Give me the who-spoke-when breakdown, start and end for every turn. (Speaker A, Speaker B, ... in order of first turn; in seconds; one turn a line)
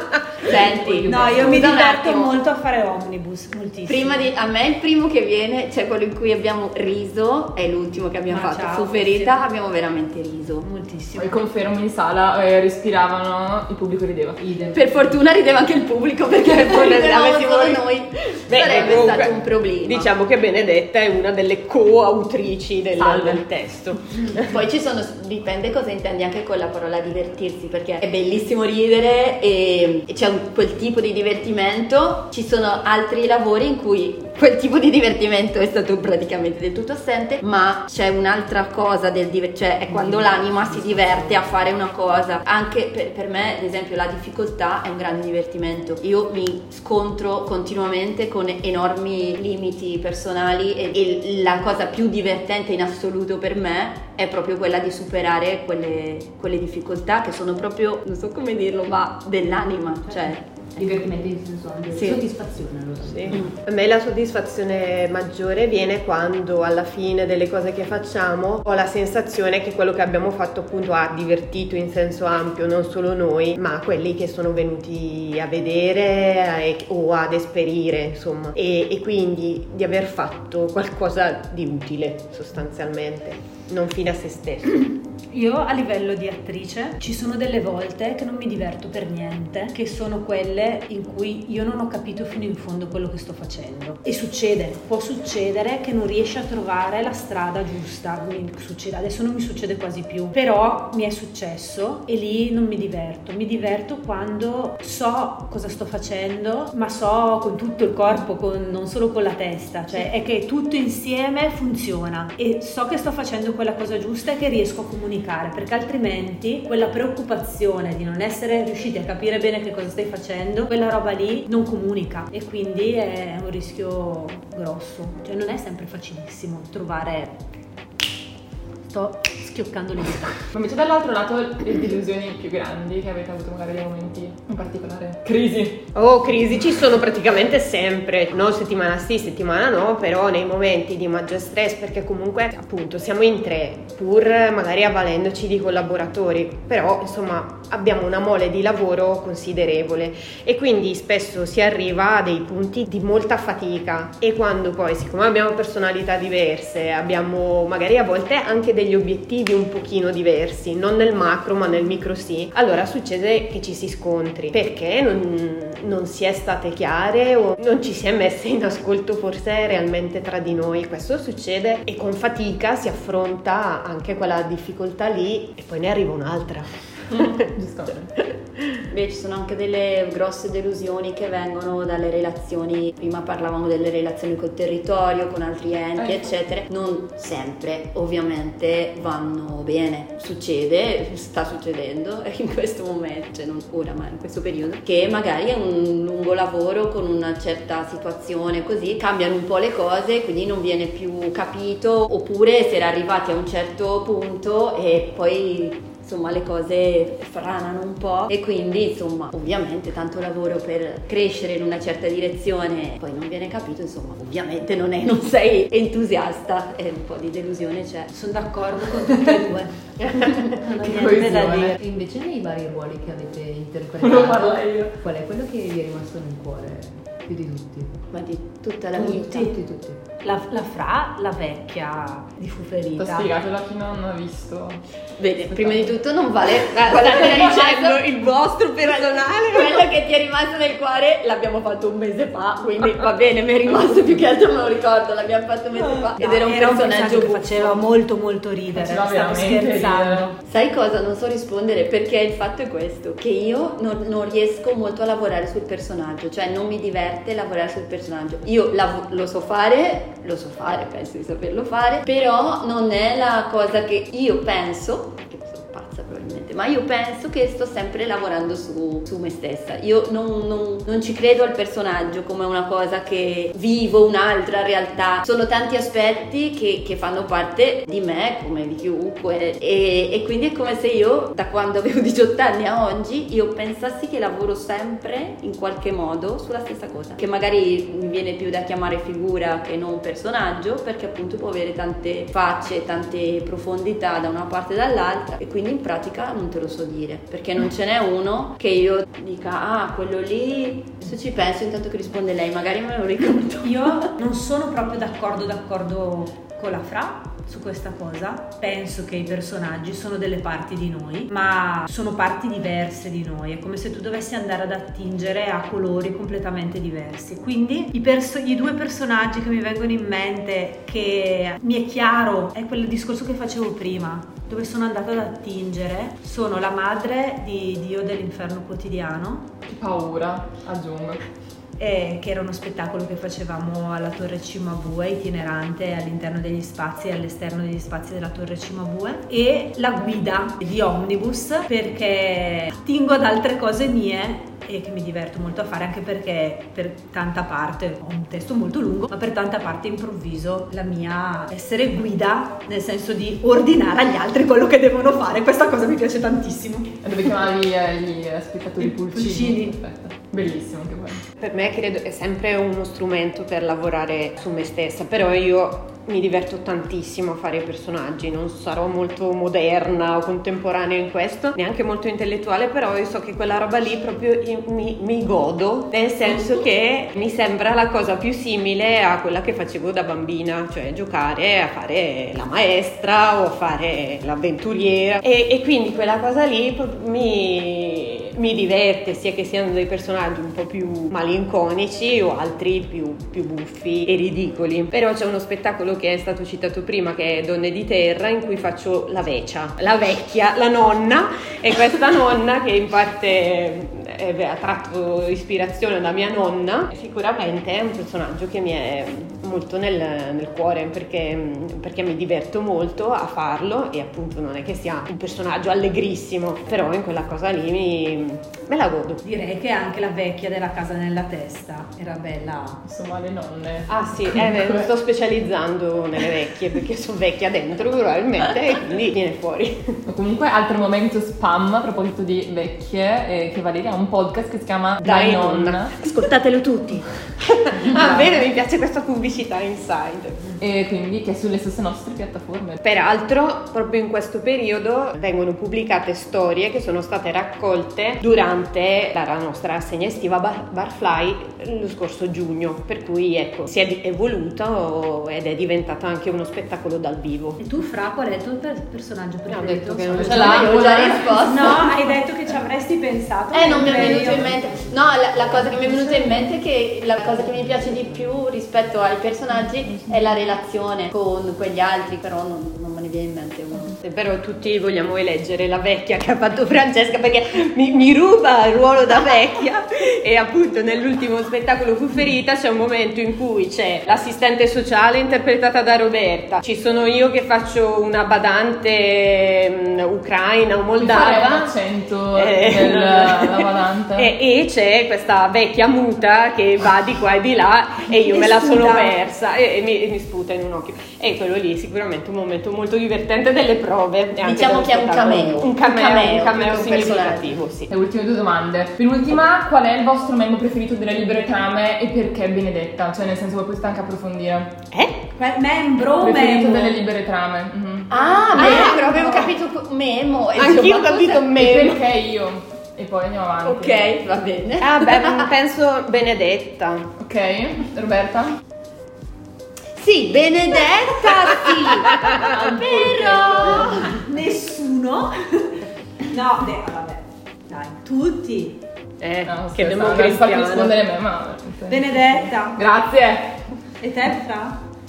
Speaker A: 0.4-2.3
Speaker B: 0.4-1.8
Speaker C: 1.0-4.3
Speaker A: 3.9-10.7
Speaker C: 8.3-9.4
Speaker C: 10.6-11.4
Speaker D: 11.2-14.4
Speaker B: 14.4-16.0
Speaker A: 14.7-20.1
Speaker E: 16.4-17.9
Speaker E: 18.4-24.5
Speaker D: 23.0-23.4
Speaker A: 24.4-61.1
Speaker B: 39.9-41.7
Speaker B: 60.0-63.5
Speaker A: 61.9-62.2
Speaker E: 63.1-84.9
Speaker C: 85.3-127.4
Speaker C: 128.9-130.4
Speaker D: 130.5-135.8
Speaker E: 135.9-177.5
Speaker D: 177.3-178.1
Speaker A: 178.9-218.1
Speaker D: 186.0-186.2
Speaker C: 218.1-221.8
Speaker E: 220.0-220.3
Speaker D: 220.8-221.8
Speaker B: 221.8-228.0
Speaker D: 224.0-224.9
Speaker A: 228.1-229.5
Speaker B: 228.9-230.0
Speaker C: 230.2-233.3
Speaker D: 233.0-234.8
Speaker A: 235.2-247.8
Speaker E: 236.6-239.9
Speaker C: 246.2-250.4
Speaker D: 248.7-250.2
Speaker A: 250.4-304.1
Speaker C: 303.6-329.5
Speaker D: 329.6-331.2
Speaker C: 331.8-357.0
Speaker D: 357.0-361.2
Speaker C: 358.8-359.8
Speaker E: 361.4-419.2
Speaker C: 419.2-422.8
Speaker D: 422.8-424.9
Speaker E: 423.9-430.0
Speaker D: 430.1-435.9
Speaker E: 435.0-440.4
Speaker A: 436.1-436.8
Speaker D: 440.6-442.8
Speaker E: 442.8-457.6
Speaker C: 457.6-464.5
Speaker D: 459.5-461.4
Speaker E: 460.0-460.9
Speaker A: 460.2-461.9
Speaker A: 463.5-474.0
Speaker B: 463.7-466.0
Speaker B: 467.2-468.3
Speaker E: 474.0-491.7
Speaker D: 491.0-494.3
Speaker E: 492.3-507.9
Speaker C: 498.2-499.1
Speaker A: 504.4-507.6
Speaker D: 507.9-514.8
Speaker E: 514.9-515.2
Speaker C: 515.3-517.0
Speaker D: 516.2-518.7
Speaker A: 518.1-521.5
Speaker E: 518.5-519.5
Speaker C: 518.6-519.4
Speaker E: 520.5-522.0
Speaker D: 521.6-524.1
Speaker A: 523.6-525.5
Speaker E: 524.8-527.1
Speaker D: 527.2-528.6
Speaker A: 530.0-532.4
Speaker D: 532.1-534.2
Speaker C: 532.6-538.8
Speaker A: 533.6-534.1
Speaker E: 539.2-541.0
Speaker D: 539.5-543.6
Speaker C: 541.9-542.8
Speaker C: 544.0-544.8